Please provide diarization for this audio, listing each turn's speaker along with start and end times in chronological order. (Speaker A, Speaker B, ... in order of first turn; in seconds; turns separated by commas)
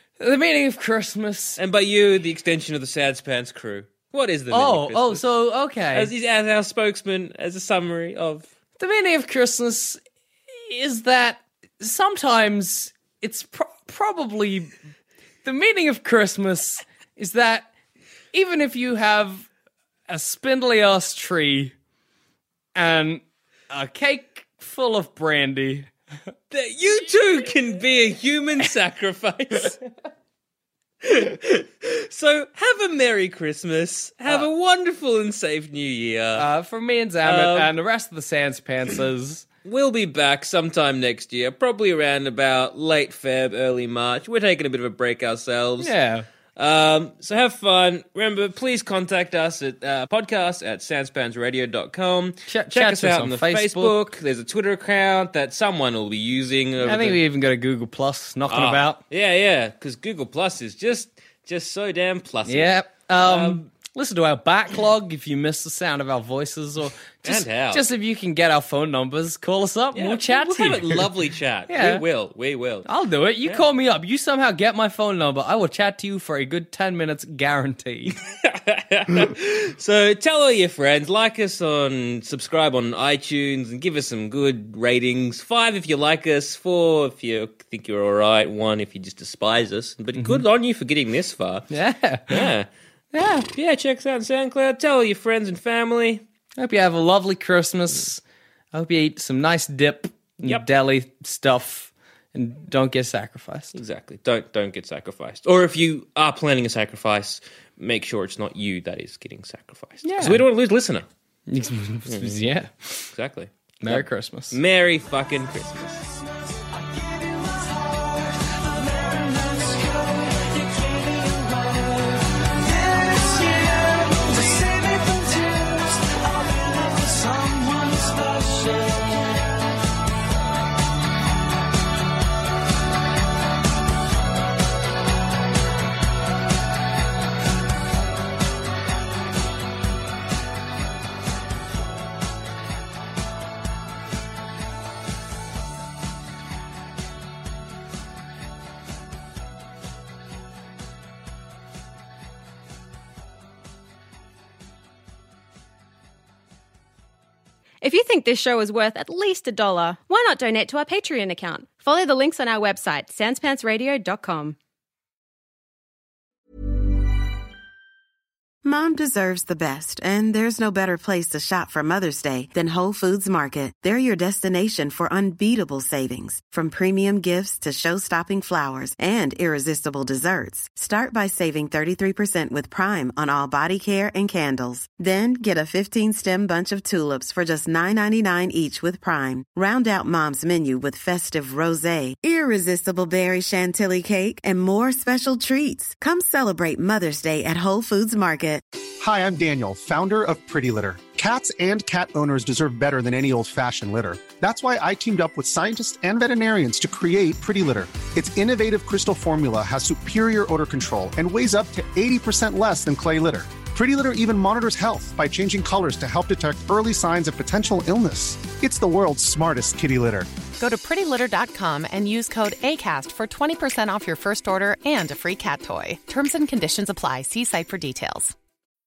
Speaker A: 0.2-1.6, Speaker B: 1.6-5.2, Speaker A: 4.5-6.1, Speaker B: 5.9-8.5, Speaker A: 8.8-10.0, Speaker A: 10.5-14.8, Speaker A: 15.4-17.7, Speaker A: 18.3-19.5, Speaker A: 20.1-21.7, Speaker A: 22.8-25.9, Speaker B: 26.5-29.8, Speaker B: 31.0-36.5, Speaker A: 36.4-39.5, Speaker B: 37.2-37.7, Speaker B: 39.6-45.9, Speaker A: 45.8-46.3, Speaker B: 46.6-57.2, Speaker A: 52.5-54.1, Speaker A: 56.8-59.0, Speaker B: 58.5-63.7, Speaker A: 62.5-71.1, Speaker B: 67.2-67.9, Speaker B: 69.9-72.9, Speaker A: 71.7-72.0, Speaker A: 72.8-78.2, Speaker B: 78.2-91.7, Speaker A: 90.2-90.4, Speaker A: 91.7-92.5, Speaker B: 92.3-92.7, Speaker A: 93.1-93.5, Speaker B: 93.5-96.2, Speaker A: 96.6-98.2, Speaker A: 98.7-103.8, Speaker B: 103.8-111.1, Speaker A: 110.0-110.5, Speaker A: 111.5-113.1, Speaker B: 112.1-112.4, Speaker B: 113.1-116.2, Speaker A: 113.8-114.6, Speaker C: 116.7-129.7, Speaker D: 157.8-164.6, Speaker E: 168.6-198.6, Speaker F: 199.0-220.3, Speaker G: 220.6-228.3